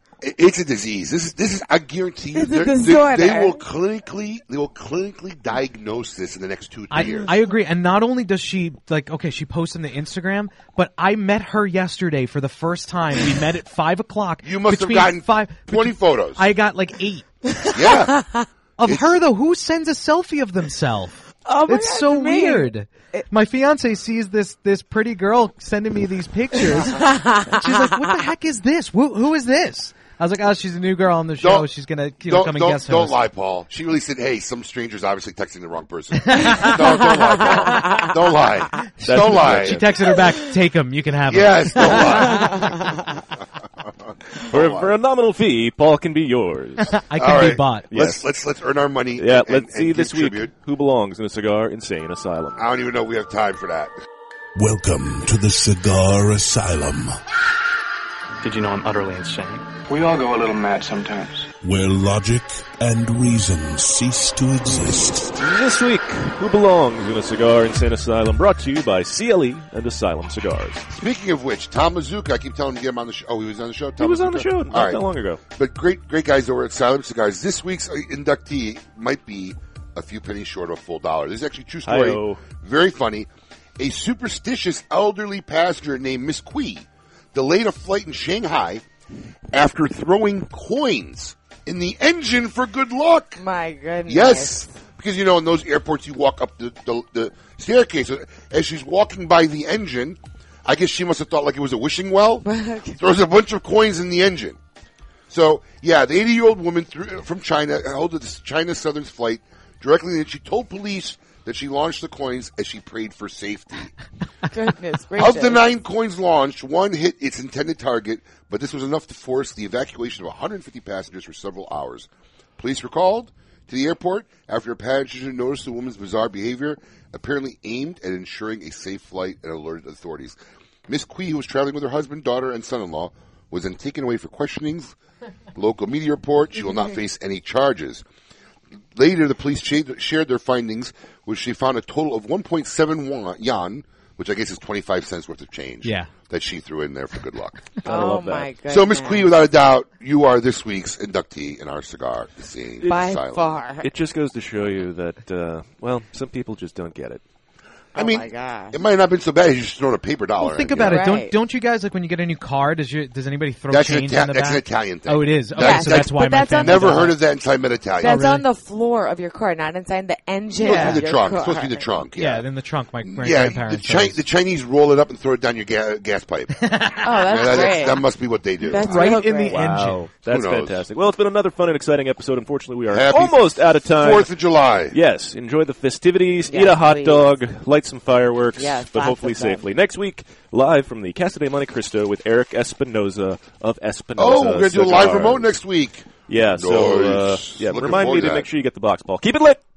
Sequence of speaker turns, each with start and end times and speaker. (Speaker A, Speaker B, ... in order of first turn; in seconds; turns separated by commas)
Speaker A: 0.2-7.4, Speaker B: 2.3-3.6, Speaker C: 6.9-17.3, Speaker A: 14.4-16.4, Speaker B: 17.6-18.5, Speaker A: 17.7-18.1, Speaker C: 18.8-21.1, Speaker B: 21.4-23.2, Speaker C: 21.7-33.2, Speaker B: 26.6-28.1, Speaker A: 31.4-31.7, Speaker A: 32.2-39.9, Speaker C: 36.2-37.1, Speaker B: 36.5-38.1, Speaker D: 39.0-39.9, Speaker C: 39.2-42.9, Speaker A: 41.2-42.8, Speaker B: 41.9-42.8, Speaker A: 44.5-44.9, Speaker D: 44.5-47.0, Speaker C: 46.9-47.9, Speaker A: 47.1-50.5, Speaker D: 47.9-48.2, Speaker D: 49.2-52.7, Speaker A: 52.5-53.9, Speaker E: 54.5-57.2, Speaker F: 58.4-61.5, Speaker E: 61.6-65.4, Speaker D: 65.4-70.8, Speaker A: 70.9-75.0, Speaker D: 74.0-75.4, Speaker A: 75.5-88.8, Speaker D: 81.8-82.4, Speaker A: 89.5-93.4, Speaker B: 93.4-94.8, Speaker A: 94.1-104.6, Speaker B: 102.4-103.0, Speaker A: 105.3-113.9, Speaker B: 114.5-115.6, Speaker A: 115.2-134.9, Speaker A: 135.5-138.0, Speaker A: 138.9-147.7, Speaker C: 145.8-146.1, Speaker D: 147.8-148.5, Speaker B: 147.8-149.3, Speaker A: 148.7-153.5, Speaker D: 152.8-153.1, Speaker B: 152.8-153.9, Speaker D: 153.8-157.2, Speaker B: 157.9-158.8, Speaker A: 157.9-161.0, Speaker C: 160.4-167.2, Speaker B: 160.8-161.3, Speaker A: 163.7-168.3, Speaker B: 165.5-167.1, Speaker B: 168.0-171.9, Speaker C: 168.0-168.4, Speaker A: 170.6-172.5, Speaker C: 170.6-171.1, Speaker C: 172.1-174.2, Speaker A: 173.0-176.6, Speaker C: 176.6-177.7, Speaker B: 177.0-178.1, Speaker A: 177.2-179.2, Speaker B: 178.6-179.6, Speaker C: 178.8-180.1, Speaker D: 179.5-184.3, Speaker A: 180.2-180.8, Speaker A: 182.9-185.0, Speaker D: 184.9-195.5, Speaker B: 186.5-187.3, Speaker B: 188.6-189.6, Speaker A: 194.2-198.4, Speaker D: 196.3-199.6